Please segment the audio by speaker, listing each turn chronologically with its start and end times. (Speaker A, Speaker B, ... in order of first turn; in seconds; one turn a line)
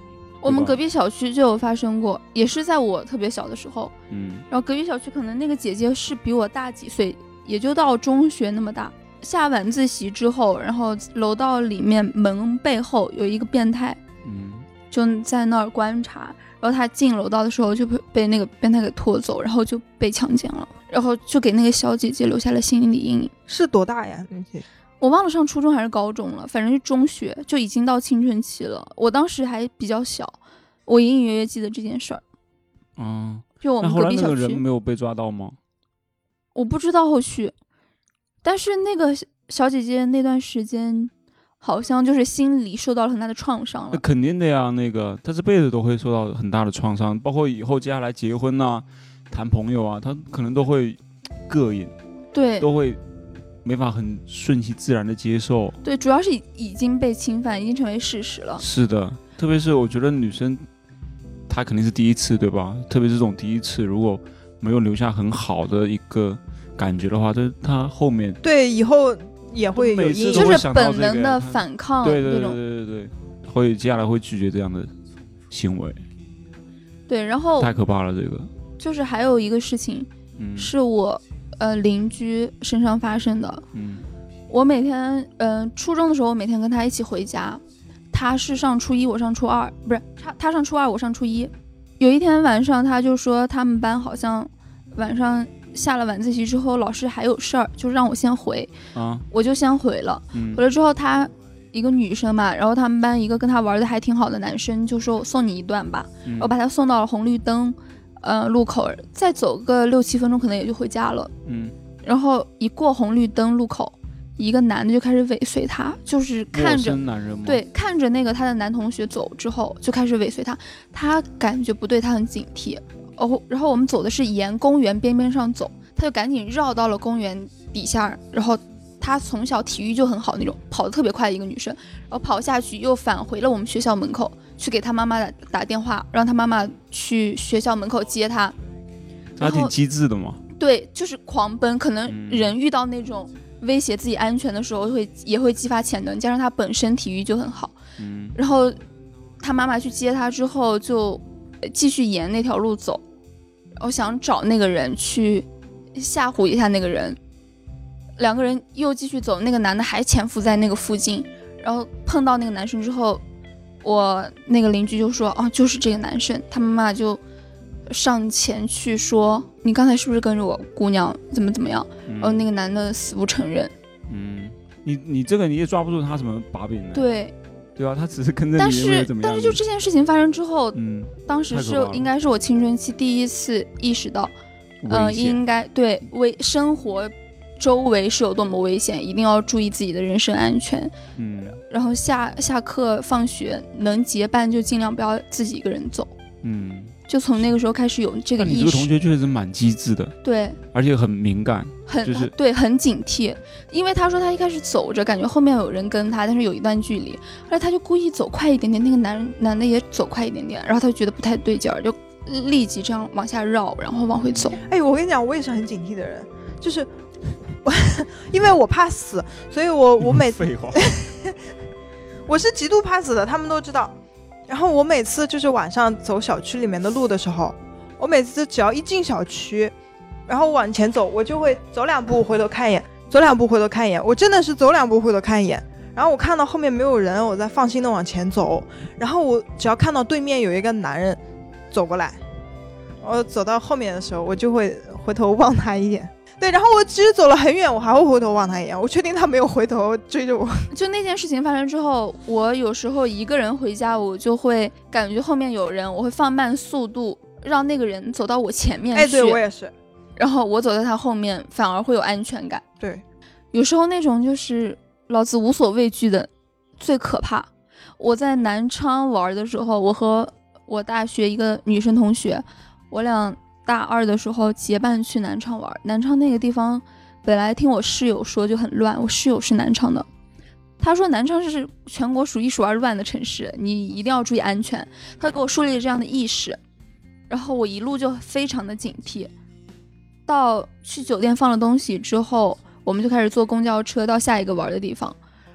Speaker A: 0.4-3.9
Speaker B: 0.4-0.8
Speaker B: 4.1-4.5
Speaker A: 4.5-14.0
Speaker B: 14.2-14.7
Speaker A: 14.9-23.3
Speaker C: 23.5-24.6
Speaker A: 25.0-30.4
Speaker A: 30.9-32.2
Speaker B: 33.0-35.6
Speaker A: 33.6-34.6
Speaker A: 36.5-37.5
Speaker A: 38.4-44.0
Speaker B: 43.9-51.9
Speaker A: 52.3-52.7
Speaker B: 52.6-53.0
Speaker B: 53.6-55.8
Speaker A: 55.8-58.6
Speaker B: 58.6-60.6
Speaker B: 61.5-68.4
Speaker C: 68.4-70.6
Speaker B: 69.8-74.9
Speaker A: 70.3-72.6
Speaker B: 75.5-76.0
Speaker A: 77.1-77.7
Speaker B: 77.6-78.5
Speaker A: 78.8-83.6
Speaker B: 80.4-80.7
Speaker B: 83.7-84.0
Speaker A: 84.5-87.6
Speaker A: 88.1-98.7
Speaker B: 98.9-99.2
Speaker A: 99.3-111.3
Speaker B: 100.3-100.6
Speaker B: 106.2-106.5
Speaker B: 111.4-111.7
Speaker A: 112.0-138.5
Speaker B: 116.5-117.6
Speaker B: 139.4-140.4
Speaker A: 139.4-139.7
Speaker A: 140.6-147.8
Speaker B: 142.1-142.5
Speaker B: 148.0-148.3
Speaker A: 148.3-148.8
Speaker A: 149.4-153.0
Speaker A: 153.8-157.2
Speaker A: 158.2-163.2
Speaker A: 163.8-167.2
Speaker A: 167.9-173.7
Speaker B: 172.1-172.5
Speaker B: 174.1-177.1
Speaker A: 176.9-177.3
Speaker B: 177.8-179.6
Speaker A: 178.6-184.3
Speaker B: 180.7-182.1
Speaker B: 184.8-185.4
Speaker A: 184.9-190.9
Speaker B: 191.2-191.6
Speaker A: 191.6-196.1
Speaker B: 196.4-196.9
Speaker A: 197.1-198.9
Speaker B: 198.4-200.1
Speaker A: 200.2-200.6
Speaker B: 200.7-202.3
Speaker A: 201.9-214.6
Speaker C: 214.6-216.9
Speaker C: 217.6-221.3
Speaker B: 220.0-220.9
Speaker C: 222.3-223.9
Speaker C: 224.5-229.7
Speaker C: 230.3-241.2
Speaker C: 241.7-242.2
Speaker C: 243.0-250.7
Speaker A: 250.7-259.4
Speaker C: 258.9-259.7
Speaker A: 260.2-262.6
Speaker A: 263.5-267.5
Speaker A: 268.0-280.1
Speaker A: 280.8-286.6
Speaker A: 287.3-289.3
Speaker A: 290.3-295.2